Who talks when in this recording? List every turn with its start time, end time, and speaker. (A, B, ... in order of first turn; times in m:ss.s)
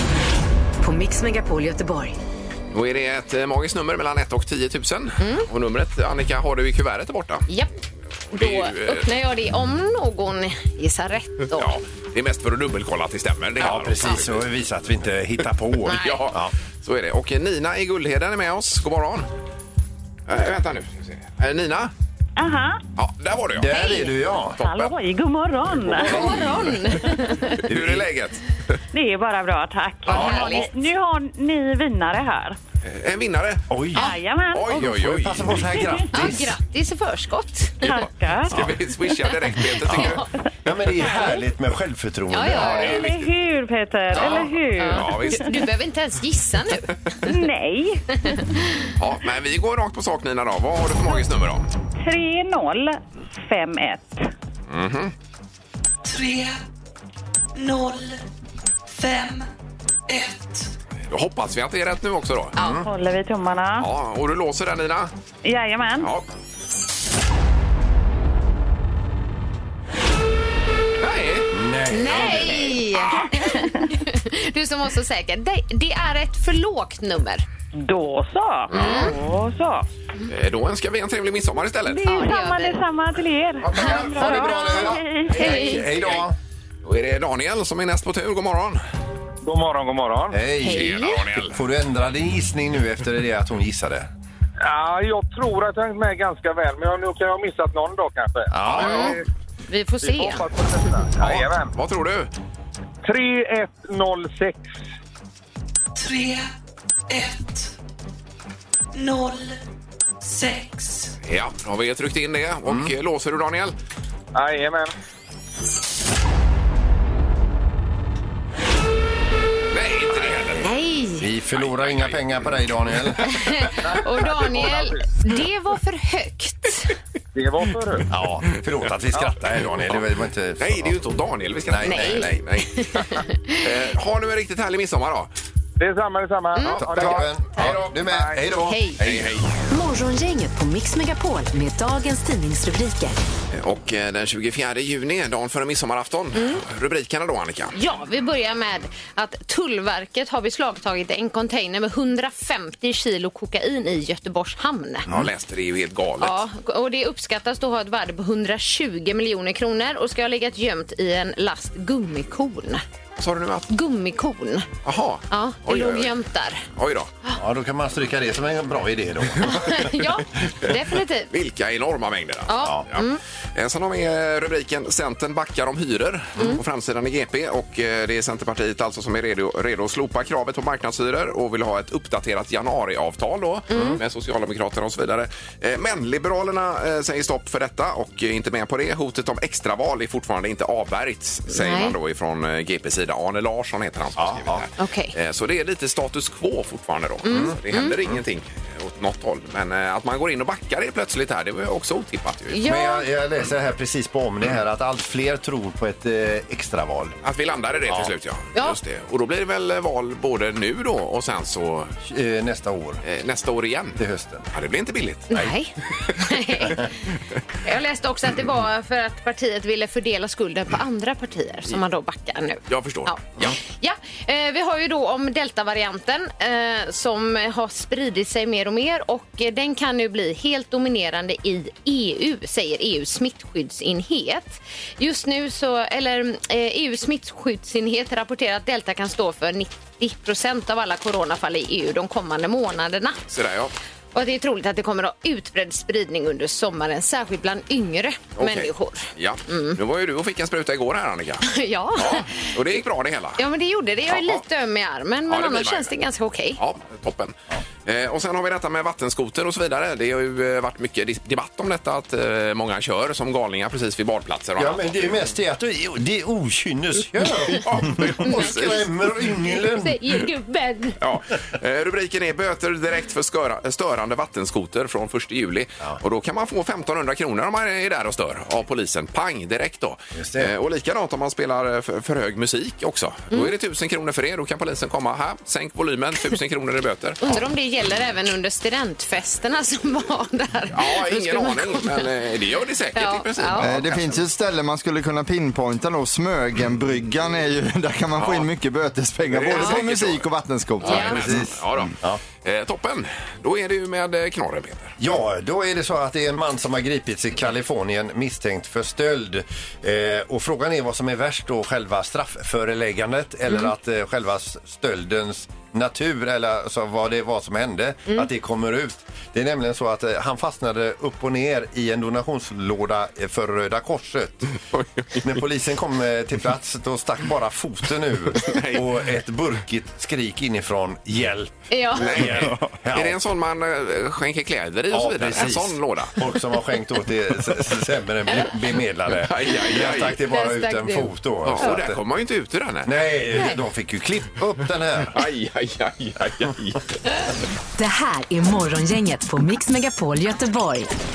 0:00.8-0:02.2 A
0:02.7-0:07.4 B
0:05.2-0:05.4 C
0:08.3-0:09.1 B
0:08.3-0:11.7 C
0:11.5-0:14.5 B
0:13.6-0:16.5 D
0:13.6-0:14.2 C
0:15.8-0:19.3 B
0:15.8-0:16.2 C
0:20.3-0:21.9 B
0:22.4-0:22.8 E
0:23.0-0:23.7 B
0:23.6-0:24.9 D
0:23.7-0:24.1 C
0:24.6-0:26.4 E
0:25.8-0:26.8 D
0:26.0-0:27.6 C
0:26.2-0:26.5 B
0:27.6-0:28.8 B
0:27.7-0:28.1 D
0:28.9-0:32.6 E
0:30.1-0:30.7 C
0:30.1-0:30.7 B
0:32.8-0:33.7 B
0:33.7-0:34.1 D
0:33.9-0:34.9 E
0:34.5-0:35.7 B
0:34.7-0:36.5 D
0:35.6-0:36.3 E
0:36.1-0:37.9 C
0:37.8-0:38.7 E
0:37.8-0:40.2 B
0:39.8-0:40.2 C
0:39.8-0:43.0 D
0:41.0-0:41.4 E
0:42.3-0:43.0 C
0:42.5-0:43.3 B
0:42.6-0:45.5 E
0:44.1-0:45.4 B
0:44.8-0:46.9 C
0:47.2-0:48.4 E
0:48.2-0:48.9 C
0:49.0-0:51.7 B
0:52.0-0:54.3 E
0:54.7-0:55.1 B
0:56.0-0:56.6 F
0:57.5-0:58.2 F
0:58.9-0:59.5 F
1:00.1-1:00.7 F
1:01.1-1:02.6 B
1:02.6-1:02.8 C
1:02.6-1:02.9 D
1:02.8-1:03.9 E
1:03.8-1:05.1 B
1:05.4-1:06.1 E
1:06.0-1:06.2 B
1:11.0-1:11.5 B
1:11.5-1:12.9 D
1:11.9-1:17.4 C
1:17.8-1:19.8 E
1:18.7-1:19.1 B
1:18.7-1:19.1 C
1:20.3-1:22.0 B
1:21.9-1:25.8 E
1:22.0-1:22.8 C
1:23.6-1:24.3 B
1:23.7-1:26.3 D
1:23.8-1:25.8 C
1:25.4-1:26.3 B
1:26.8-1:28.8 B
1:29.4-1:30.4 G
1:30.3-1:34.1 D
1:30.6-1:31.2 C
1:30.6-1:31.6 B
1:34.6-1:39.2 G
1:38.5-1:39.1 D
1:38.6-1:39.1 B
1:38.8-1:39.1 C
1:39.7-1:40.9 C
1:40.0-1:41.7 G
1:41.2-1:42.3 B
1:43.0-1:44.8 G
1:45.9-1:46.5 F
1:47.1-1:47.7 F
1:48.9-1:49.6 F
1:50.2-1:51.1 F
1:51.2-1:53.8 B
1:52.6-1:52.9 D
1:54.3-1:54.9 G
1:59.7-2:00.7 B
2:00.2-2:00.6 D
2:00.6-2:01.2 C
2:01.2-2:03.3 D
2:01.5-2:02.3 B
2:03.2-2:06.9 C
2:03.8-2:05.1 G
2:07.3-2:08.0 G
2:08.1-2:11.0 D
2:09.5-2:10.0 B
2:10.6-2:15.3 B
2:11.7-2:12.3 D
2:11.8-2:13.6 C
2:15.8-2:18.4 G
2:16.5-2:16.8 C
2:16.6-2:17.9 B
2:16.8-2:19.4 D
2:18.6-2:19.0 C
2:19.0-2:19.5 B
2:19.7-2:23.2 A
2:23.5-2:27.7 B
2:26.3-2:26.6 C
2:27.7-2:35.0 C
2:35.1-2:36.4 B
2:36.2-2:42.8 C
2:43.2-2:43.7 B
2:43.7-2:44.7 C
2:44.8-2:46.1 B
2:45.3-2:46.6 C
2:46.7-2:47.1 B
2:47.3-2:49.9 D
2:49.6-2:51.3 C
2:51.3-3:22.6 B
2:52.5-2:53.2 C
3:03.7-3:04.0 C
3:11.5-3:11.9 C
3:14.2-3:14.6 D
3:14.8-3:15.1 C
3:17.2-3:17.9 C
3:17.3-3:17.6 D
3:22.5-3:23.0 C
3:22.6-3:27.2 D
3:27.2-3:31.9 B
3:32.0-3:33.0 D
3:33.0-3:34.0 B
3:34.0-3:34.5 D
3:34.5-3:35.3 B
3:35.3-3:36.9 C
3:37.6-4:03.2 C
3:42.7-3:43.6 B
4:03.3-4:03.7 B
4:04.1-4:09.8 C
4:08.4-4:13.4 B
4:11.4-4:12.5 C
4:13.4-4:16.6 C
4:14.1-4:14.4 B
4:15.3-4:15.9 B
4:16.6-4:25.1 B
4:24.6-4:30.0 D
4:27.5-4:28.8 B
4:28.2-4:31.0 C
4:31.0-4:47.2 B
4:40.2-4:40.5 D
4:47.2-4:52.1 C
4:50.7-4:54.1 B
4:52.9-4:53.7 C
4:53.6-5:01.4 H
4:58.2-4:58.5 B
4:59.3-5:00.3 B
4:59.5-4:59.8 C
5:00.8-5:05.0 B
5:00.8-5:01.2 C
5:00.9-5:02.2 D
5:05.0-5:24.5 D
5:24.7-5:25.3 B
5:25.2-5:33.2 D
5:28.4-5:29.0 B
5:31.7-5:32.3 C
5:32.0-5:36.2 B
5:34.9-5:42.0 D
5:39.2-5:40.2 B
5:40.3-5:41.8 C
5:41.4-5:43.0 B
5:42.8-5:45.2 D
5:43.3-5:43.6 C
5:45.1-5:46.9 B
5:47.8-5:50.9 A